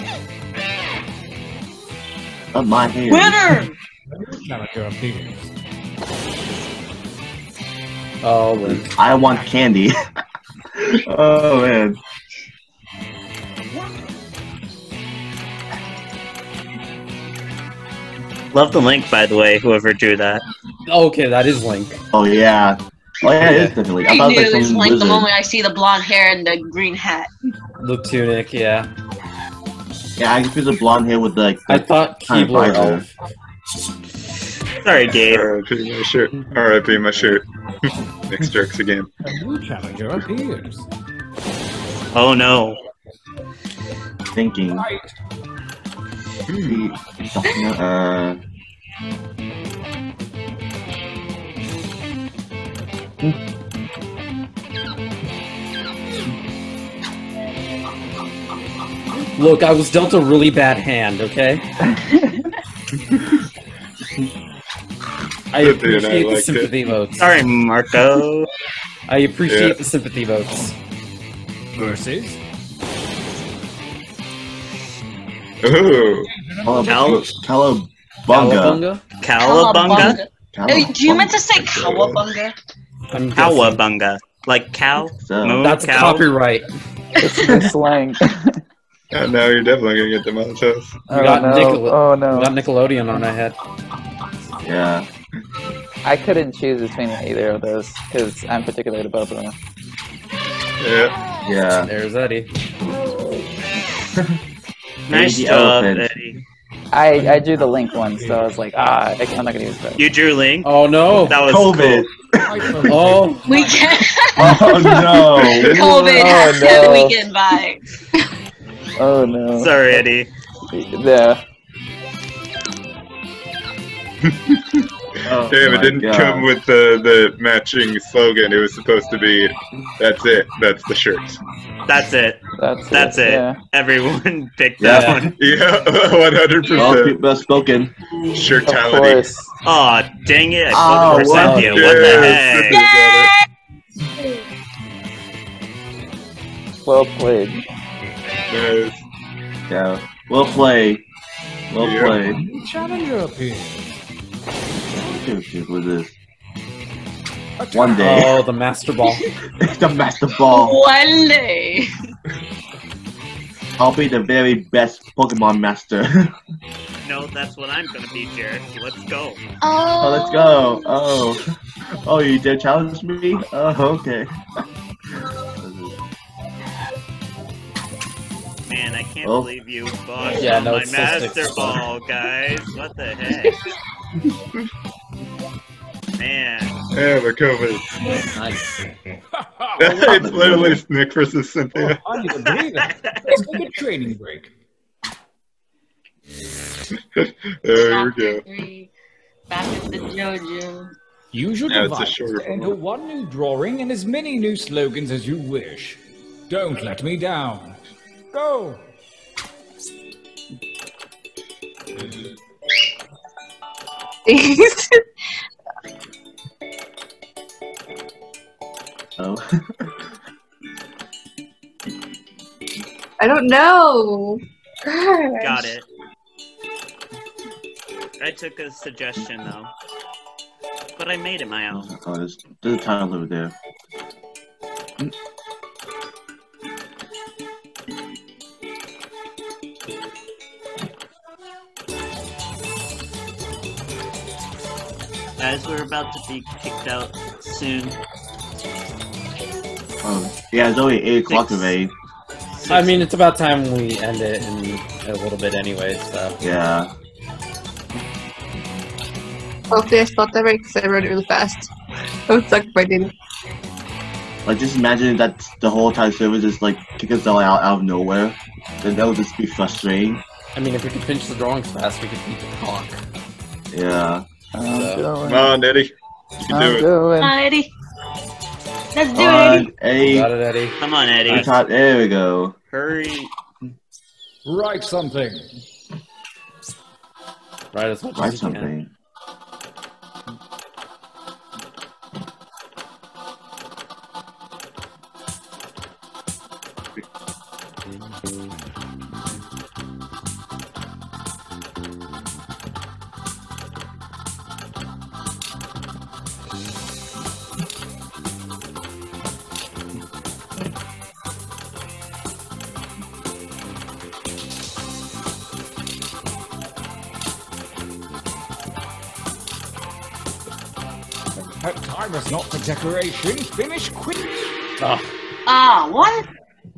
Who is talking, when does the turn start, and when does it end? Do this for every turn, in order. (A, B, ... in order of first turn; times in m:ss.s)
0:02.5-0:03.7 A
0:03.1-0:03.7 B
0:04.1-0:05.5 C
0:08.2-0:08.9 D
0:08.6-0:10.0 A
0:09.3-0:09.6 C
0:10.8-0:12.0 A
0:18.5-0:20.4 E
0:20.9-0:22.0 D
0:22.1-0:25.3 A
0:23.4-0:23.8 D
0:24.0-0:27.3 B
0:27.8-0:28.9 D
0:30.2-0:33.1 A
0:31.7-0:33.1 D
0:34.8-0:35.5 E
0:35.2-0:37.4 F
0:38.3-0:39.1 F
0:39.2-0:40.9 C
0:42.1-0:42.8 E
0:44.3-0:44.9 A
0:44.7-0:45.1 C
0:46.5-0:46.8 F
0:46.7-0:48.4 A
0:59.4-1:01.6 D
1:05.5-1:07.3 D
1:05.6-1:06.7 F
1:07.2-1:08.5 E
1:09.1-1:10.8 D
1:09.5-1:09.8 F
1:11.8-1:12.4 C
1:15.6-1:16.3 F
1:16.3-1:17.3 C
1:16.6-1:18.8 A
1:16.8-1:17.3 E
1:18.3-1:19.0 D
1:19.2-1:20.2 E
1:19.4-1:22.6 B
1:19.9-1:21.6 A
1:21.6-1:22.3 F
1:23.1-1:23.8 D
1:23.4-1:26.3 E
1:25.0-1:25.6 A
1:25.6-1:26.7 D
1:27.2-1:28.6 G
1:29.1-1:31.0 F
1:31.1-1:32.6 G
1:31.1-1:33.6 D
1:34.6-1:35.1 A
1:36.0-1:39.6 G
1:40.8-1:41.2 F
1:41.4-1:41.9 A
1:41.8-1:42.5 D
1:45.1-1:46.4 E
1:45.1-1:46.1 A
1:46.9-1:50.0 G
1:47.2-1:48.4 C
1:50.0-1:52.1 E
1:50.6-1:51.4 D
1:51.4-1:52.9 A
1:52.4-1:54.2 C
1:52.9-1:53.4 D
1:53.5-1:54.6 B
1:54.3-1:56.4 A
1:54.6-1:55.3 G
1:55.3-1:55.8 F
1:55.6-1:57.8 B
1:56.0-1:57.2 G
1:59.0-2:00.0 G
1:59.6-2:00.3 E
2:00.7-2:01.4 G
2:04.5-2:04.8 F
2:05.3-2:06.5 A
2:05.3-2:11.4 F
2:11.9-2:15.3 E
2:12.6-2:13.6 G
2:14.8-2:15.3 A
2:14.8-2:15.2 D
2:15.4-2:17.2 F
2:16.8-2:17.9 A
2:18.3-2:19.3 F
2:18.6-2:19.5 G
2:19.6-2:22.8 E
2:20.7-2:21.7 A
2:21.1-2:22.2 D
2:21.3-2:23.3 F
2:26.8-2:27.6 G
2:28.5-2:29.0 F
2:29.7-2:31.0 A
2:31.7-2:32.4 A
2:31.8-2:32.2 F
2:32.2-2:34.0 C
2:34.9-2:36.2 A
2:37.6-2:38.3 C
2:37.7-2:38.4 A
2:38.0-2:39.2 D
2:39.6-2:40.8 A
2:40.4-2:41.9 B
2:43.8-2:46.3 A
2:47.0-2:49.4 E
2:49.6-2:51.0 B
2:50.0-2:51.5 A
2:52.0-2:54.3 A
2:55.6-2:56.0 A
2:58.7-3:03.6 E
2:59.2-2:59.5 A
3:00.3-3:01.8 D
3:06.2-3:06.7 E
3:06.9-3:07.9 F
3:08.3-3:08.7 D
3:09.3-3:10.2 C
3:09.8-3:12.0 F
3:10.0-3:10.8 A
3:11.8-3:14.5 C
3:12.8-3:13.4 E
3:17.2-3:18.4 F
3:17.8-3:18.9 B
3:19.5-3:20.9 B
3:21.3-3:27.8 C
3:21.7-3:22.8 F
3:28.3-3:28.8 C
3:34.3-3:35.0 H
3:39.2-3:40.1 A
3:43.2-3:45.7 H
3:45.4-3:45.9 E
3:48.2-3:49.7 E
3:51.0-3:51.9 E
3:51.7-3:53.5 A
4:05.4-4:08.0 E
4:10.0-4:11.9 A
4:11.3-4:11.7 E
4:12.6-4:13.1 E
4:12.7-4:16.4 D
4:16.4-4:16.9 A
4:19.7-4:21.7 H
4:22.3-4:23.1 H
4:24.4-4:30.2 A
4:30.6-4:33.0 D
4:33.7-4:34.2 A
4:34.6-4:35.6 G
4:34.8-4:35.1 D
4:35.2-4:36.9 F
4:36.5-4:37.4 G
4:37.2-4:37.7 B
4:39.0-4:39.7 B
4:39.1-4:40.3 A
4:40.0-4:40.8 D
4:40.8-4:41.5 E
4:41.3-4:42.6 A
4:42.7-4:43.3 E
4:44.4-4:45.5 C
4:47.7-4:48.7 D
4:48.2-4:48.9 A
5:21.6-5:24.5 C
5:24.8-5:25.1 D
5:25.5-5:26.3 B